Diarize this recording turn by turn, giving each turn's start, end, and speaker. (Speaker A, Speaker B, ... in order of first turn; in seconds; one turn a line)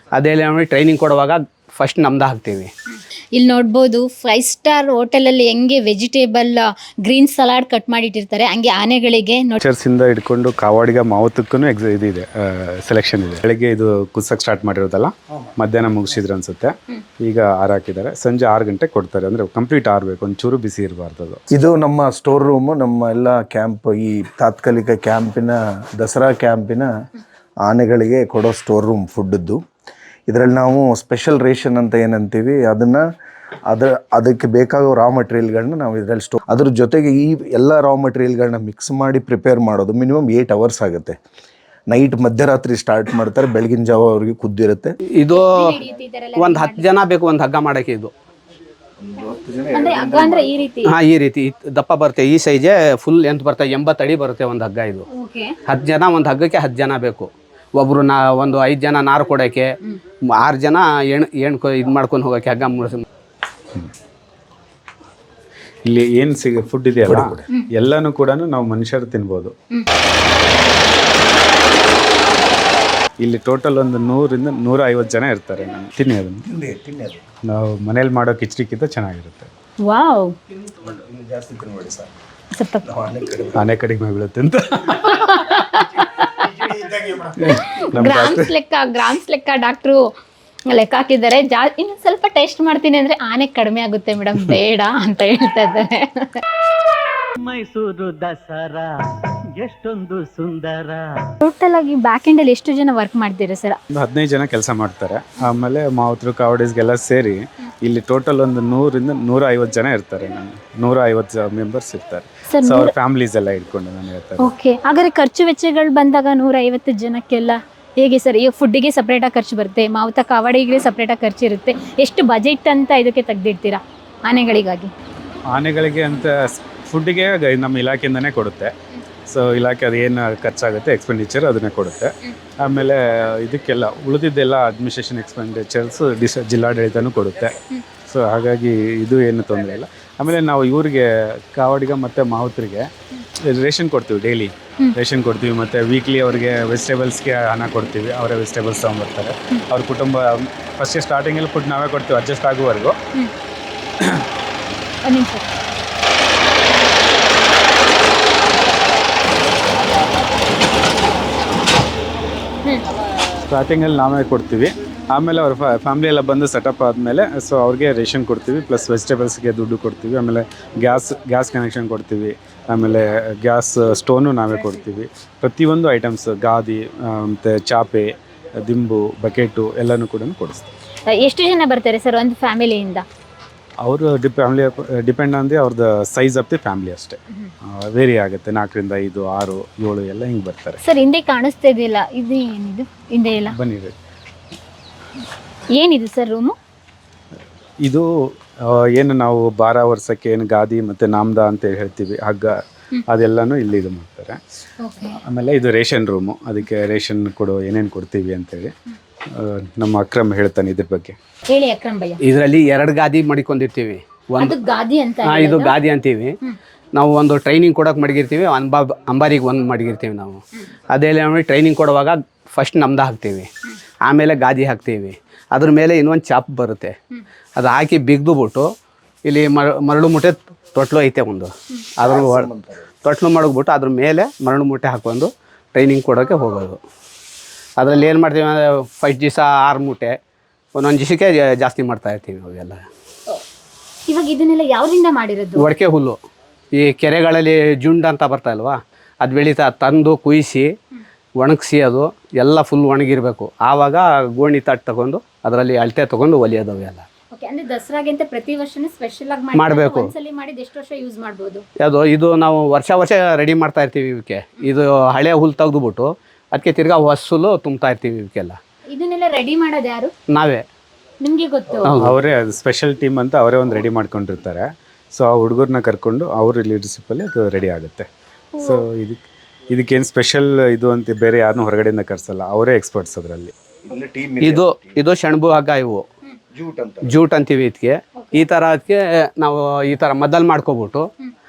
Speaker A: 0.2-2.7
Speaker B: 3.4-9.6
Speaker C: 9.6-21.4
Speaker D: 21.5-26.9
Speaker D: 27.7-29.6
Speaker D: 30.3-33.0
Speaker D: 33.7-41.2
Speaker D: 41.9-45.0
Speaker A: 45.2-45.5
Speaker B: 45.3-46.9
Speaker A: 46.4-48.1
Speaker D: 49.0-50.6
Speaker B: 49.7-50.9
Speaker A: 50.9-55.1
Speaker B: 55.1-55.5
Speaker A: 55.7-59.7
Speaker A: 60.3-63.0
Speaker C: 65.8-69.5
Speaker D: 67.0-67.5
Speaker C: 73.2-76.5
Speaker D: 76.5-77.2
Speaker C: 77.5-79.5
Speaker B: 79.9-80.4
Speaker D: 80.5-82.1
Speaker B: 82.5-82.8
Speaker D: 82.8-83.7
Speaker C: 83.5-85.7
Speaker B: 85.1-86.7
Speaker D: 86.4-87.3
Speaker C: 87.4-88.5
Speaker B: 87.5-90.0
Speaker B: 90.7-96.4
Speaker E: 97.4-101.3
Speaker B: 101.4-103.8
Speaker C: 103.9-114.5
Speaker B: 112.5-112.9
Speaker B: 114.4-124.9
Speaker C: 125.5-128.7
Speaker C: 129.3-153.0
Speaker C: 154.0-154.3
Speaker B: 155.1-155.6
Speaker C: 163.5-180.7
Speaker B: 181.1-183.1
Speaker C: 183.8-190.8
Speaker B: 190.8-193.6
Speaker C: 193.5-193.9
Speaker B: 195.8-196.6
Speaker C: 198.6-204.4
Speaker B: 204.8-205.2
Speaker C: 205.0-208.7
Speaker C: 209.3-211.2
Speaker B: 211.5-212.2
Speaker A: 212.2-214.6
Speaker B: 214.4-215.8
Speaker A: 215.2-216.3
Speaker A: 217.0-220.4
Speaker A: 220.9-223.5
Speaker A: 224.1-226.9
Speaker A: 227.6-228.7
Speaker A: 229.3-232.5
Speaker D: 232.0-232.9
Speaker A: 233.0-236.8
Speaker A: 237.8-240.2
Speaker A: 240.8-242.8
Speaker B: 244.1-245.7
Speaker A: 245.6-246.2
Speaker A: 246.8-250.7
Speaker A: 251.4-257.1
Speaker B: 257.3-261.6
Speaker A: 259.6-260.1
Speaker A: 261.8-268.6
Speaker B: 268.9-270.1
Speaker A: 270.3-270.6
Speaker B: 271.2-271.9
Speaker A: 271.9-272.1
Speaker C: 272.0-283.5
Speaker D: 283.9-285.0
Speaker A: 284.4-286.0
Speaker D: 286.6-287.2
Speaker A: 287.0-291.1
Speaker B: 288.2-288.4